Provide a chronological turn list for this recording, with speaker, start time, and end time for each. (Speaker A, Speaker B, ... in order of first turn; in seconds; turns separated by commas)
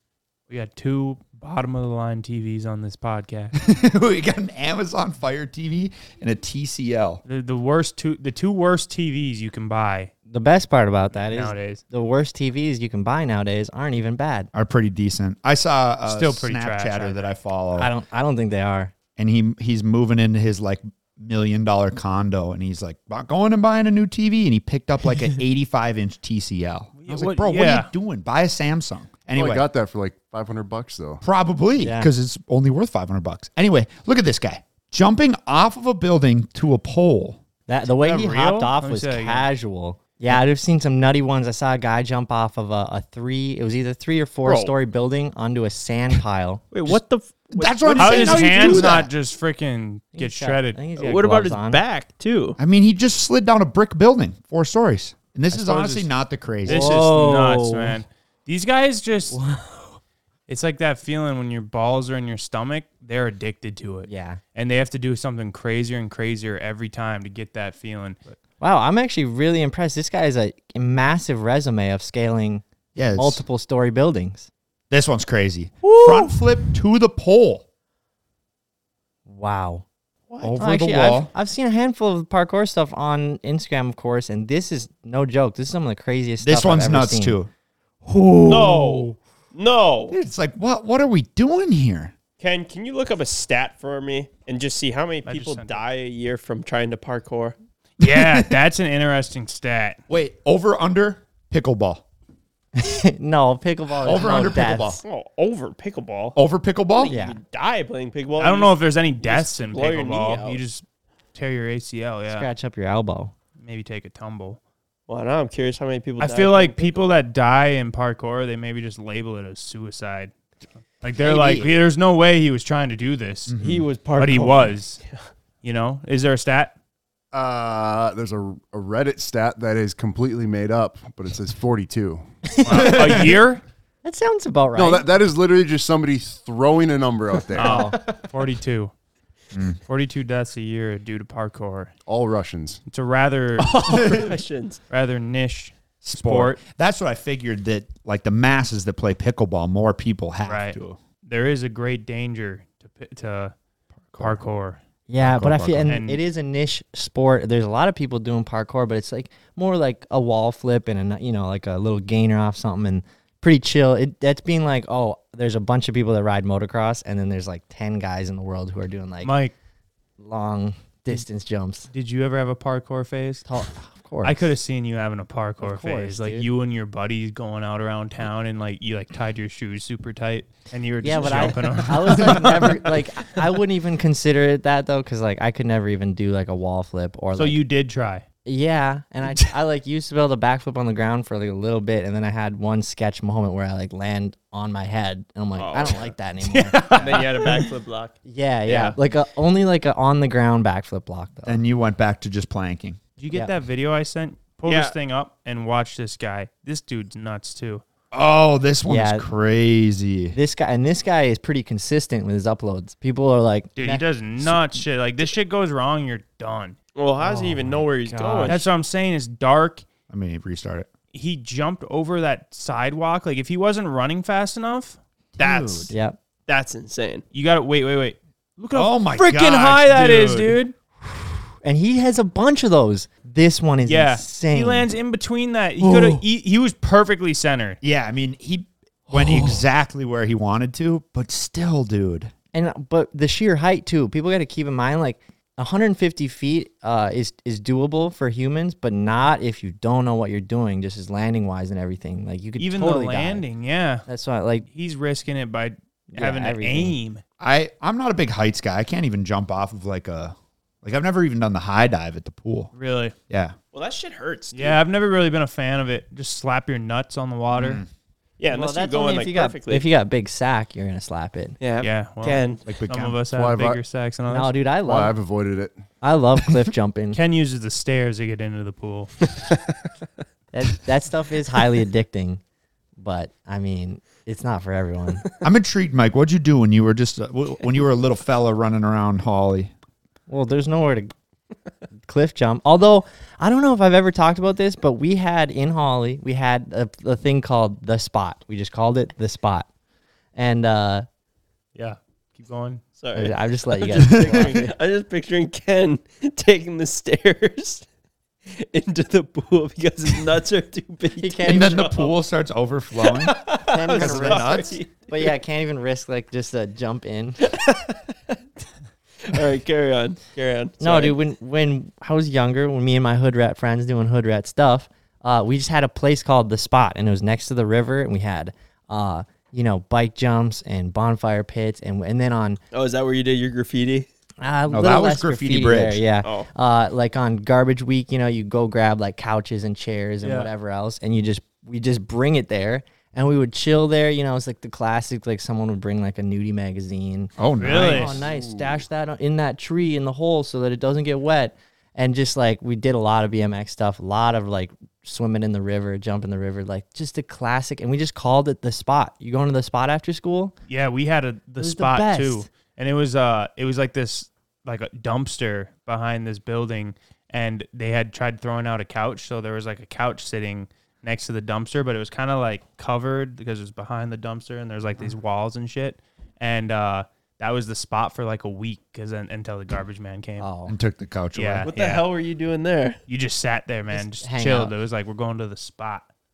Speaker A: 0.5-3.5, Speaker B: 3.5-7.2, Speaker A: 7.2-10.1, Speaker C: 10.3-14.5, Speaker A: 11.2-11.8, Speaker B: 14.5-17.9, Speaker A: 16.1-17.3, Speaker C: 17.8-18.9, Speaker B: 19.2-29.7, Speaker A: 27.1-27.9, Speaker D: 29.3-31.2, Speaker B: 31.2-37.4, Speaker C: 31.8-32.1, Speaker C: 37.7-46.6, Speaker A: 38.0-39.5, Speaker E: 44.4-44.7, Speaker E: 46.7-49.0, Speaker B: 47.5-49.1, Speaker A: 48.0-50.9, Speaker C: 50.1-51.8, Speaker E: 51.0-52.6, Speaker B: 52.6-56.8, Speaker A: 55.5-56.0, Speaker A: 56.6-59.4, Speaker C: 56.6-58.0, Speaker C: 59.3-60.0, Speaker A: 60.5-68.2, Speaker C: 64.0-64.4, Speaker C: 68.6-74.5, Speaker B: 72.9-73.4, Speaker B: 74.9-77.6, Speaker C: 75.8-76.3, Speaker C: 79.3-79.8, Speaker B: 80.4-81.3, Speaker C: 80.5-87.4, Speaker B: 86.4-87.5, Speaker C: 88.1-89.0, Speaker E: 88.5-90.1, Speaker B: 90.1-92.1, Speaker E: 92.4-97.5, Speaker A: 95.2-95.8, Speaker B: 98.0-98.5, Speaker A: 98.0-100.0, Speaker B: 100.1-102.0, Speaker C: 102.8-105.0, Speaker B: 104.0-105.0, Speaker E: 104.2-104.5, Speaker E: 105.0-106.4, Speaker B: 106.3-107.1, Speaker E: 107.0-110.6, Speaker C: 107.1-107.4, Speaker A: 108.4-112.5, Speaker C: 112.3-113.3, Speaker A: 113.6-114.6, Speaker E: 115.1-117.0, Speaker A: 116.2-120.3, Speaker A: 121.0-123.5, Speaker C: 121.2-121.7, Speaker B: 123.5-123.8, Speaker E: 123.6-125.2, Speaker A: 124.2-125.0, Speaker A: 125.6-126.7, Speaker D: 127.3-132.3, Speaker C: 132.6-133.2, Speaker A: 132.6-133.6, Speaker B: 132.7-133.2, Speaker C: 134.0-135.1, Speaker D: 134.7-137.9, Speaker A: 137.6-138.9, Speaker C: 137.6-137.9, Speaker B: 139.5-139.8, Speaker A: 139.9-141.9, Speaker D: 142.1-142.8, Speaker A: 142.9-144.1, Speaker E: 143.6-144.8, Speaker A: 144.9-146.6, Speaker B: 146.0-151.0, Speaker A: 150.4-153.5, Speaker B: 154.1-154.4, Speaker A: 154.2-154.8, Speaker C: 155.1-169.3, Speaker D: 155.2-155.9, Speaker A: 155.9-156.2, Speaker A: 169.2-169.5, Speaker C: 170.2-171.9, Speaker A: 171.9-173.5, Speaker C: 173.4-174.3, Speaker A: 174.2-183.0, Speaker C: 175.6-176.4, Speaker C: 181.0-187.6, Speaker B: 182.0-182.5, Speaker A: 187.3-188.2, Speaker C: 188.4-196.8, Speaker E: 195.6-196.1, Speaker A: 196.4-197.7, Speaker E: 196.8-198.9, Speaker C: 198.2-201.6, Speaker B: 201.4-203.0, Speaker A: 203.2-207.8, Speaker E: 204.7-204.9, Speaker B: 208.1-210.3, Speaker C: 208.9-209.3, Speaker C: 210.3-214.5, Speaker A: 213.8-216.8, Speaker E: 216.9-218.6, Speaker C: 217.2-218.6, Speaker A: 218.5-219.8, Speaker B: 220.1-220.9, Speaker A: 221.1-225.0, Speaker B: 225.4-225.9, Speaker E: 225.4-225.9, Speaker C: 225.9-226.2, Speaker E: 226.5-227.2, Speaker A: 227.3-230.7, Speaker B: 228.7-230.6, Speaker C: 231.1-234.9, Speaker A: 233.9-237.8, Speaker B: 237.8-242.3, Speaker C: 239.2-239.5, Speaker C: 242.5-253.4, Speaker A: 252.6-254.1, Speaker C: 254.1-254.7, Speaker A: 254.7-257.2, Speaker C: 256.1-256.9, Speaker B: 257.4-262.7, Speaker A: 262.7-263.1, Speaker B: 263.3-263.5, Speaker E: 263.7-264.8, Speaker A: 264.5-267.8, Speaker B: 267.5-267.9, Speaker E: 268.4-269.9, Speaker C: 268.5-271.6, Speaker E: 271.6-272.7, Speaker A: 271.8-274.5, Speaker B: 272.7-273.2, Speaker D: 273.3-273.8, Speaker C: 274.3-275.1, Speaker D: 274.8-275.7, Speaker C: 276.0-277.2, Speaker A: 277.1-279.3, Speaker C: 280.5-282.4, Speaker C: 283.0-285.2, Speaker B: 285.4-289.7, Speaker C: 290.3-291.1, Speaker C: 292.1-299.7, Speaker C: 300.4-301.1, Speaker A: 301.7-302.8, Speaker E: 303.0-307.8, Speaker C: 303.1-304.7, Speaker B: 304.1-304.4, Speaker E: 308.6-312.1, Speaker C: 311.2-311.9, Speaker B: 311.4-314.8, Speaker E: 313.0-315.3, Speaker C: 313.7-317.5, Speaker E: 317.5-317.9, Speaker E: 319.2-321.1, Speaker C: 320.8-332.6, Speaker E: 332.7-334.1, Speaker C: 334.4-360.5, Speaker B: 334.7-336.0, Speaker E: 336.2-336.5, Speaker A: 340.2-340.5, Speaker B: 347.4-348.4, Speaker A: 347.6-348.2, Speaker A: 360.7-380.5, Speaker C: 361.6-362.4, Speaker C: 380.4-380.8, Speaker B: 380.7-381.7, Speaker A: 381.3-382.0, Speaker E: 381.6-383.0, Speaker A: 383.1-386.1, Speaker C: 383.9-384.7